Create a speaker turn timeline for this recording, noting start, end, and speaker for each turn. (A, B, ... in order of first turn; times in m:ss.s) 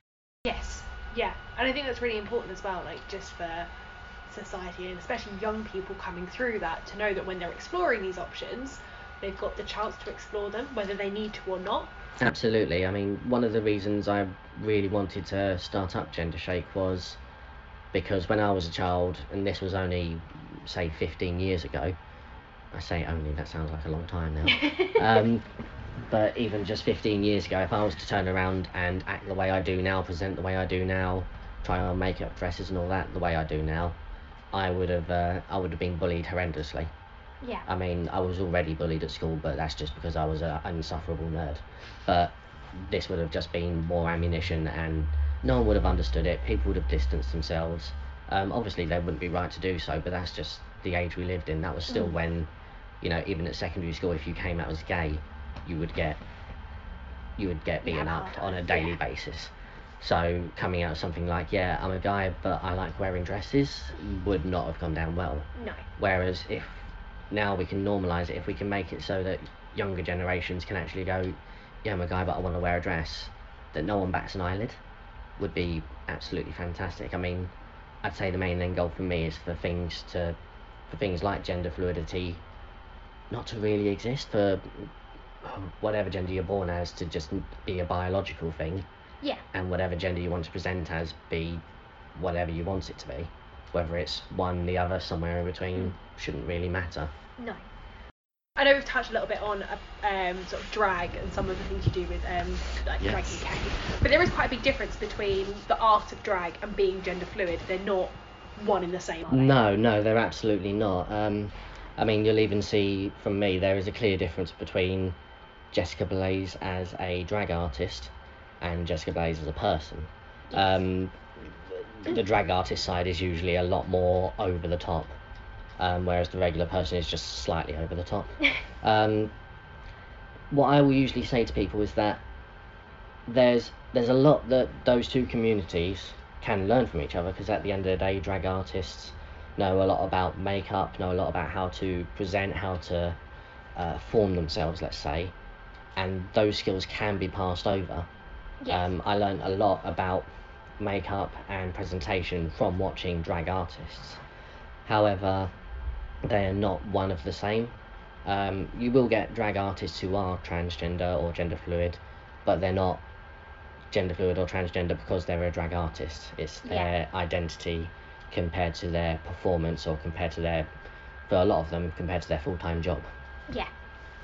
0:00.4-0:03.7 A
0:04.3-0:11.9 A
0:12.2-0:17.2 B
0:17.9-0:22.0 B
0:22.7-0:25.4 B
0:24.5-0:25.0 C
0:26.1-0:34.0 B
0:34.5-0:36.9 B
0:37.4-0:37.7 C
0:37.7-0:56.2 B
0:51.9-0:52.2 C
0:57.4-1:14.8 B
0:57.8-0:59.0 C
1:05.6-1:05.8 C
1:15.4-1:17.5 B
1:18.0-1:20.4 B
1:20.9-1:22.4 B
1:23.3-1:24.9 B
1:25.4-1:28.9 B
1:29.5-1:31.6 B
1:32.2-1:37.1 B
1:37.4-1:37.6 C
1:38.6-1:49.6 A
1:49.3-1:55.2 B
1:55.7-2:05.2 B
2:05.8-2:09.3 B
2:10.5-2:12.2 B
2:13.3-2:23.2 B
2:23.8-2:25.4 B
2:26.0-2:28.1 B
2:28.7-2:34.2 B
2:34.8-2:35.5 B
2:36.3-2:43.0 B
2:43.9-2:50.7 B
2:46.6-2:46.9 C
2:51.3-2:53.1 B